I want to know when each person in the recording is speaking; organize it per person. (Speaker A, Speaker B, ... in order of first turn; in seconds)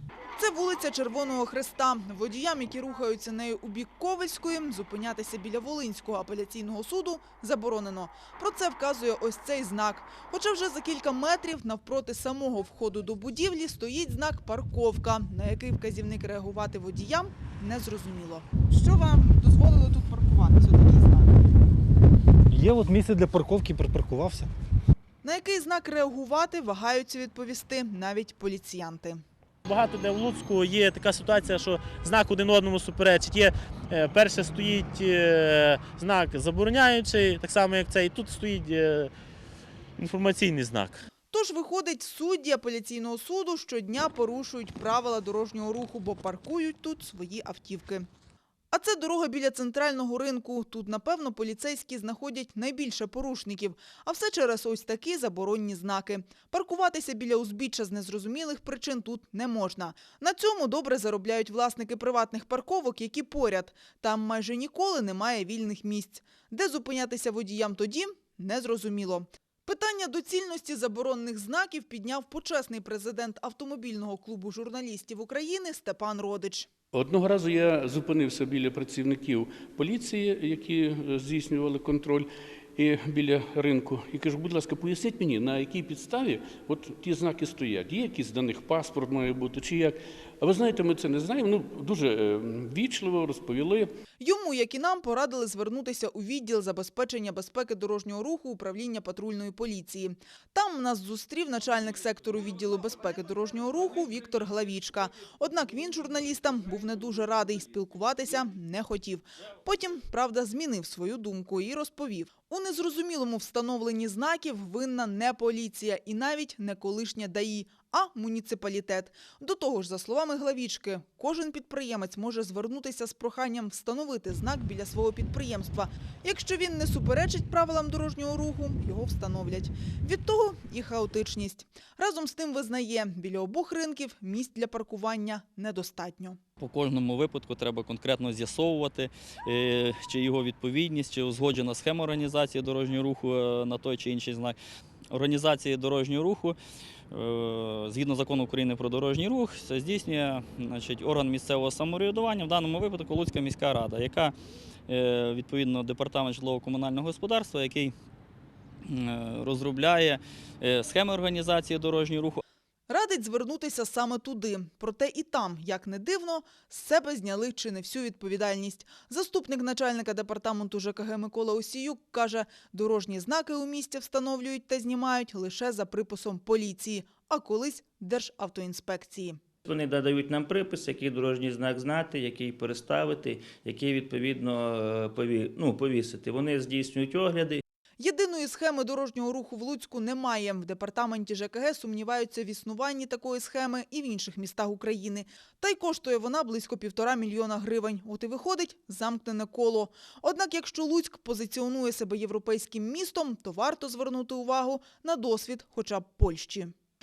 Speaker A: 0.4-21.3, 25.2-29.2, 41.3-48.1, 48.7-76.7, 94.2-136.4, 162.9-179.4, 188.0-206.7
Speaker B: 22.5-24.5
Speaker C: 29.6-39.1, 40.0-41.0
Speaker D: 76.9-93.9
Speaker E: 136.6-144.6, 145.1-146.6, 147.1-154.3, 154.9-157.9, 158.8-162.4
Speaker F: 179.7-187.6